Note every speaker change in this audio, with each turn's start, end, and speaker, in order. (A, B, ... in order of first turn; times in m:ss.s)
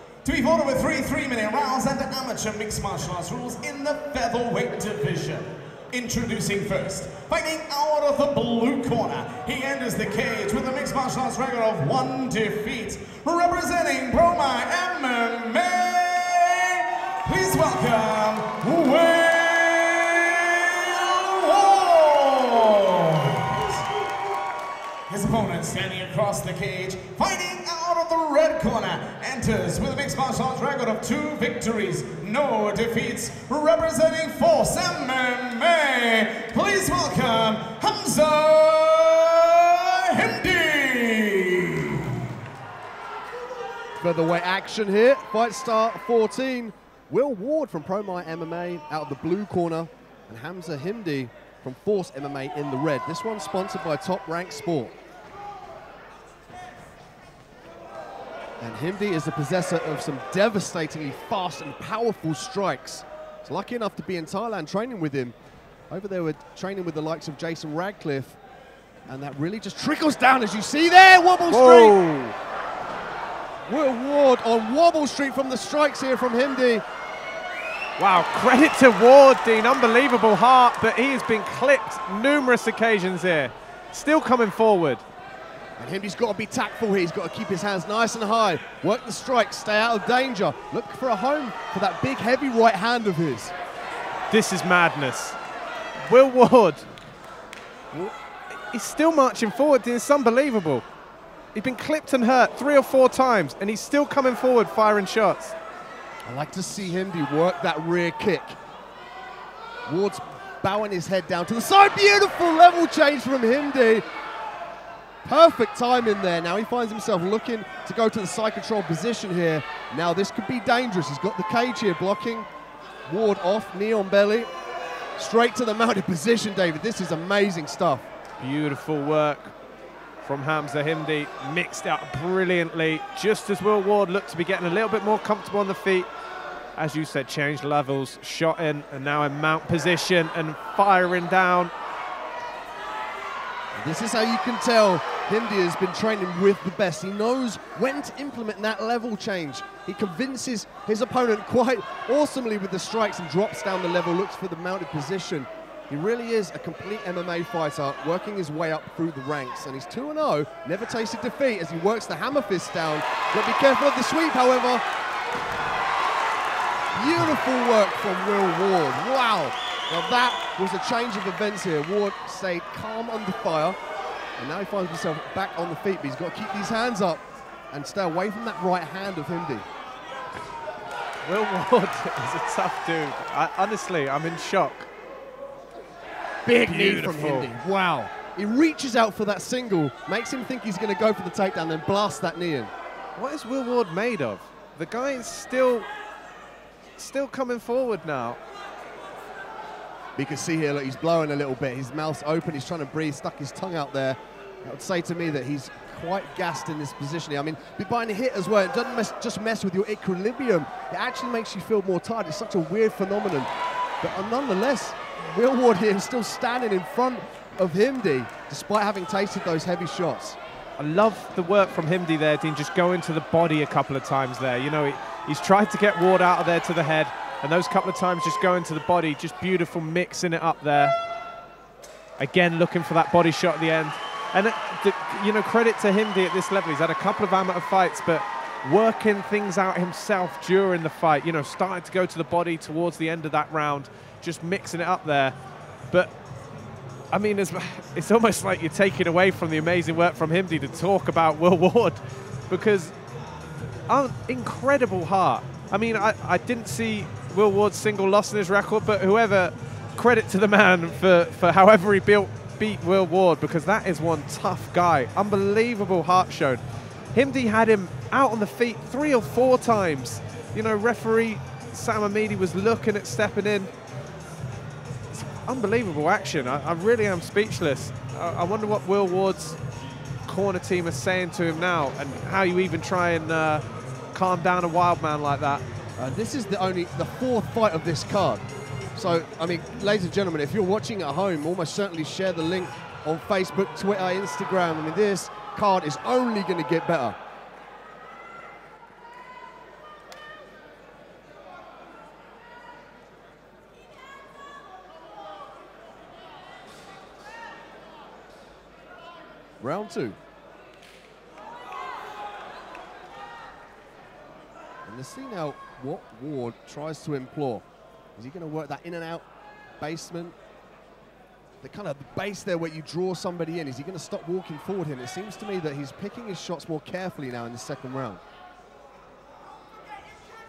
0:00.2-0:23.9 A
0:25.1-0:42.3 A
0:44.0-0:54.9 B
0:58.6-1:05.3 B
1:05.9-1:08.4 B
1:09.1-1:12.0 B
1:11.5-1:12.4 C
1:13.7-1:16.8 B
1:18.0-1:25.0 C
1:25.8-1:33.5 B
1:34.3-1:35.4 C
1:36.0-1:36.9 C
1:37.9-1:40.9 C
1:41.5-1:45.6 C
1:46.2-1:48.6 B
1:49.9-1:54.0 B
1:55.2-2:02.5 B
2:03.1-2:04.5 B
2:05.2-2:08.1 B
2:08.4-2:09.5 C
2:10.2-2:16.1 C
2:16.8-2:21.7 C
2:23.8-2:44.8 B
2:46.9-2:53.8 B
2:54.4-2:59.6 B
3:01.2-3:04.9 C
3:06.4-3:12.7 B
3:06.7-3:07.5 C
3:13.2-3:15.9 C
3:17.0-3:18.4 C
3:20.2-3:33.5 B
3:34.0-3:40.4 B
3:40.8-3:51.0 C
3:52.2-4:05.3 C
4:07.1-4:13.0 C
4:13.9-4:26.6 C
4:27.1-4:33.7 C
4:35.1-4:39.6 C
4:40.2-4:45.6 C
4:46.0-4:57.2 B
5:09.6-5:10.2 B
5:14.8-5:17.6 B
5:18.2-5:19.2 B
5:19.8-5:20.4 B
5:21.6-5:28.2 B